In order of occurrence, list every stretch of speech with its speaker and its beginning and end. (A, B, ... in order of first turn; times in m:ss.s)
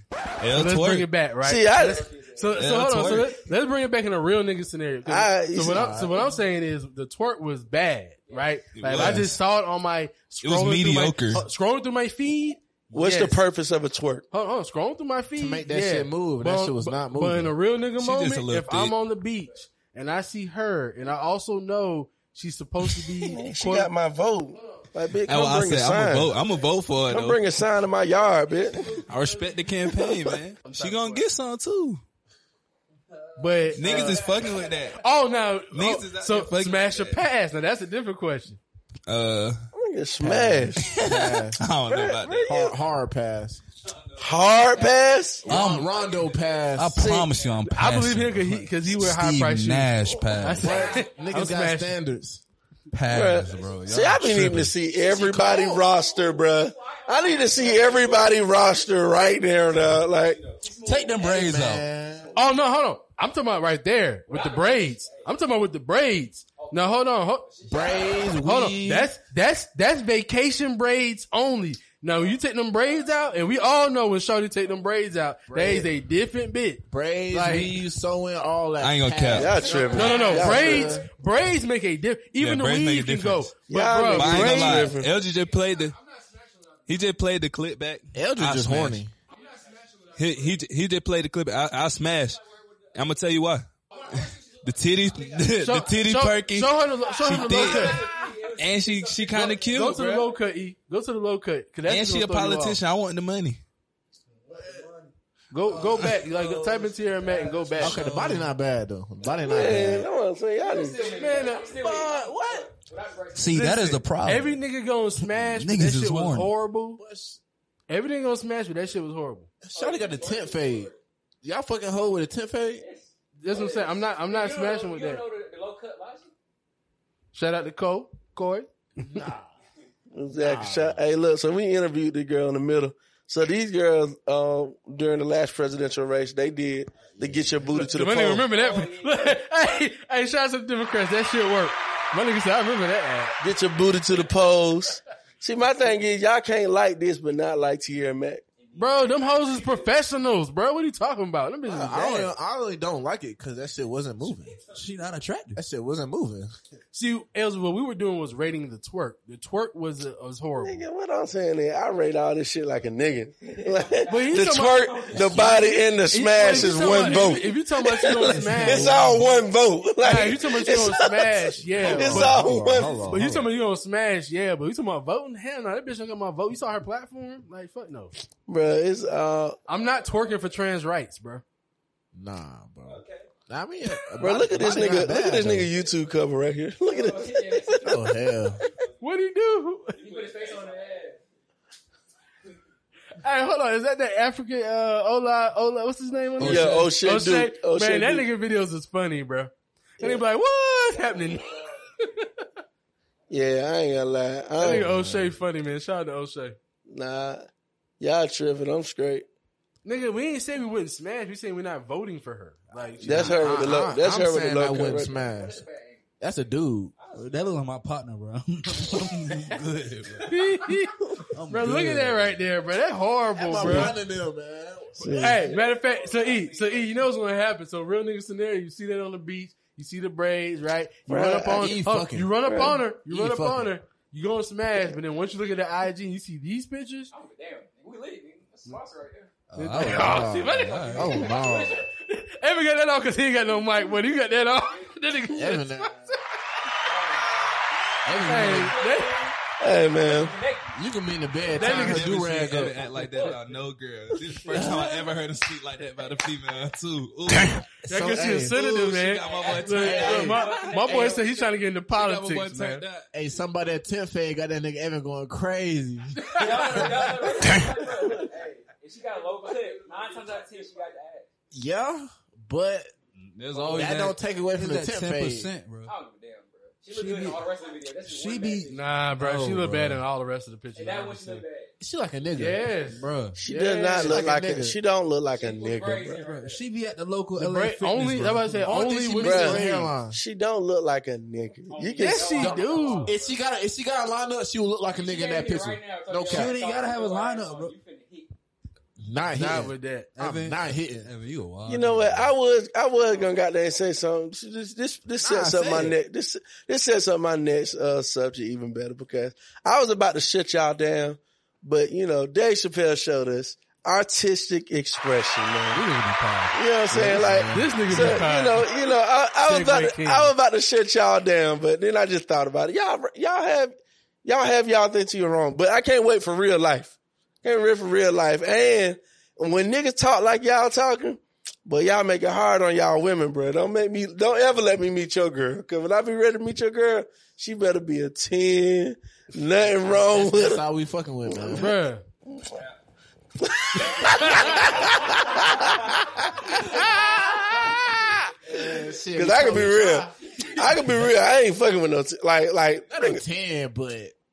0:00.4-0:01.1 A
0:00.5-0:13.4 B
0:01.4-0:02.1 C
0:02.6-0:03.4 A
0:05.1-0:05.9 C
0:05.6-0:06.3 D
0:08.8-0:09.4 A
0:10.4-0:11.4 A
0:12.9-0:14.2 C
0:14.3-0:23.9 B
0:15.4-0:17.5 D
0:18.0-0:19.0 A
0:23.3-0:26.4 C
0:25.3-0:27.4 A
0:27.1-0:29.0 C
0:29.0-0:32.0 A
0:30.0-0:30.3 C
0:30.7-0:31.3 B
0:33.4-0:34.2 B
0:33.7-0:35.0 A
0:35.0-0:38.6 B
0:35.7-0:37.2 A
0:39.1-0:39.6 A
0:39.8-0:41.0 C
0:40.2-0:41.6 D
0:41.6-0:42.6 A
0:41.9-0:42.8 C
0:42.5-0:43.6 D
0:44.2-0:45.5 C
0:45.4-0:47.2 D
0:45.5-0:45.9 E
0:46.8-0:50.9 E
0:47.7-0:51.9 B
0:50.6-0:52.4 D
0:50.7-0:51.0 F
0:52.9-0:54.7 E
0:53.1-1:00.4 C
0:55.0-0:58.3 F
1:00.4-1:01.3 F
1:00.9-1:02.3 D
1:00.9-1:01.9 E
1:02.3-1:07.5 B
1:04.3-1:05.3 F
1:06.6-1:06.9 F
1:07.4-1:08.3 F
1:07.7-1:09.1 D
1:08.4-1:17.8 B
1:12.2-1:13.7 F
1:15.5-1:15.9 D
1:16.9-1:21.1 D
1:18.8-1:19.6 A
1:19.3-1:20.9 C
1:19.9-1:24.9 B
1:22.4-1:23.6 A
1:23.7-1:25.1 C
1:24.1-1:26.0 A
1:26.9-1:29.0 A
1:28.1-1:29.1 D
1:29.3-1:30.5 F
1:30.2-1:32.4 A
1:32.9-1:40.2 A
1:34.1-1:34.6 F
1:35.6-1:38.0 B
1:37.3-1:39.6 F
1:39.4-1:42.8 B
1:41.9-1:43.6 A
1:45.5-1:48.1 B
1:46.3-1:48.3 F
1:47.8-1:50.1 D
1:49.5-1:51.1 C
1:50.6-1:53.6 F
1:51.1-1:51.7 B
1:51.7-1:52.7 D
1:53.4-1:54.6 E
1:53.5-1:57.0 B
1:55.3-1:56.5 E
1:57.0-1:57.4 D
1:57.9-1:59.5 B
1:59.6-2:02.8 D
1:59.8-2:01.0 F
2:02.8-2:06.3 F
2:03.4-2:05.2 B
2:07.3-2:09.3 B
2:09.0-2:09.5 D
2:10.1-2:18.5 C
2:10.3-2:11.0 D
2:17.2-2:17.7 D
2:17.7-2:23.4 B
2:18.4-2:19.4 F
2:23.4-2:28.4 C
2:28.6-2:29.8 F
2:28.8-2:32.3 B
2:31.7-2:34.6 D
2:34.7-2:35.6 E
2:35.6-2:36.5 D
2:36.9-2:40.8 B
2:40.6-2:53.2 C
2:44.1-2:49.1 B
2:44.2-2:45.8 F
2:46.7-2:47.3 F
2:50.0-2:52.5 B
2:51.8-2:53.5 D
2:53.1-2:58.1 B
2:58.5-2:59.6 C
2:59.7-3:01.4 B
3:02.1-3:05.7 D
3:02.9-3:03.2 F
3:04.2-3:07.9 C
3:06.9-3:08.6 F
3:07.8-3:08.6 D
3:09.0-3:10.2 B
3:10.0-3:11.2 F
3:13.2-3:22.3 B
3:16.4-3:18.3 C
3:23.3-3:24.9 C
3:24.6-3:26.6 B
3:24.6-3:25.4 D
3:26.9-3:27.5 C
3:28.0-3:29.2 C
3:29.8-3:33.4 B
3:33.0-3:35.6 D
3:33.0-3:35.1 C
3:35.3-3:36.0 F
3:36.2-3:36.9 D
3:37.0-3:37.4 F
3:37.1-3:40.3 E
3:40.3-3:41.0 B
3:41.3-3:42.4 E
3:41.5-3:44.0 B
3:43.4-3:45.2 D
3:45.0-3:45.4 C
3:45.2-3:57.1 B
3:45.3-3:47.0 F
3:51.1-3:51.8 C
3:51.4-3:53.7 D
3:52.4-3:52.8 C
3:57.1-3:59.3 F
3:59.5-4:01.4 E
3:59.6-4:01.5 B
3:59.6-4:01.8 D
4:01.2-4:01.8 F
4:02.1-4:05.9 B
4:05.3-4:05.9 D
4:06.8-4:07.6 F
4:08.0-4:08.7 D
4:08.2-4:09.3 B
4:08.3-4:09.3 F
4:08.3-4:08.7 E
4:09.6-4:10.3 C
4:10.0-4:10.7 F
4:10.7-4:12.9 D
4:11.6-4:12.6 B
4:11.6-4:17.6 A
4:14.5-4:14.8 D
4:17.9-4:18.6 D
4:17.9-4:22.8 B
4:18.5-4:21.2 A
4:19.3-4:21.4 F
4:19.8-4:20.4 D
4:21.9-4:23.1 A
4:23.1-4:26.9 D
4:26.3-4:31.3 F
4:31.5-4:32.9 D
4:33.2-4:35.9 E
4:33.5-4:34.0 F
4:33.8-4:35.5 D
4:35.8-4:38.8 F
4:36.9-4:37.3 B
4:38.1-4:40.0 E
4:38.7-4:41.4 B
4:40.8-4:41.7 F
4:41.8-4:42.7 D
4:42.4-4:43.0 B
4:42.9-4:43.4 E
4:43.4-4:46.2 C
4:43.5-4:44.8 D
4:45.3-4:46.6 F
4:46.2-4:49.1 E
4:47.4-4:49.9 B
4:48.6-4:50.2 D
4:49.2-4:52.6 C
4:51.7-4:53.3 F
4:52.0-4:53.1 B
4:53.1-4:56.5 D
4:55.0-4:58.3 F
4:56.3-4:57.8 E
4:59.0-5:01.1 D
4:59.4-5:00.1 B
5:00.2-5:02.3 E
5:01.7-5:15.8 C
5:05.2-5:06.0 D
5:15.8-5:18.2 E
5:16.5-5:40.6 C
5:17.5-5:18.7 B
5:19.4-5:20.3 B
5:39.9-5:41.7 D
5:41.5-5:42.0 B
5:43.4-5:45.9 C
5:46.7-5:48.1 C
5:48.5-5:50.1 D
5:48.7-5:49.0 F
5:49.1-5:53.2 C
5:52.9-5:54.2 D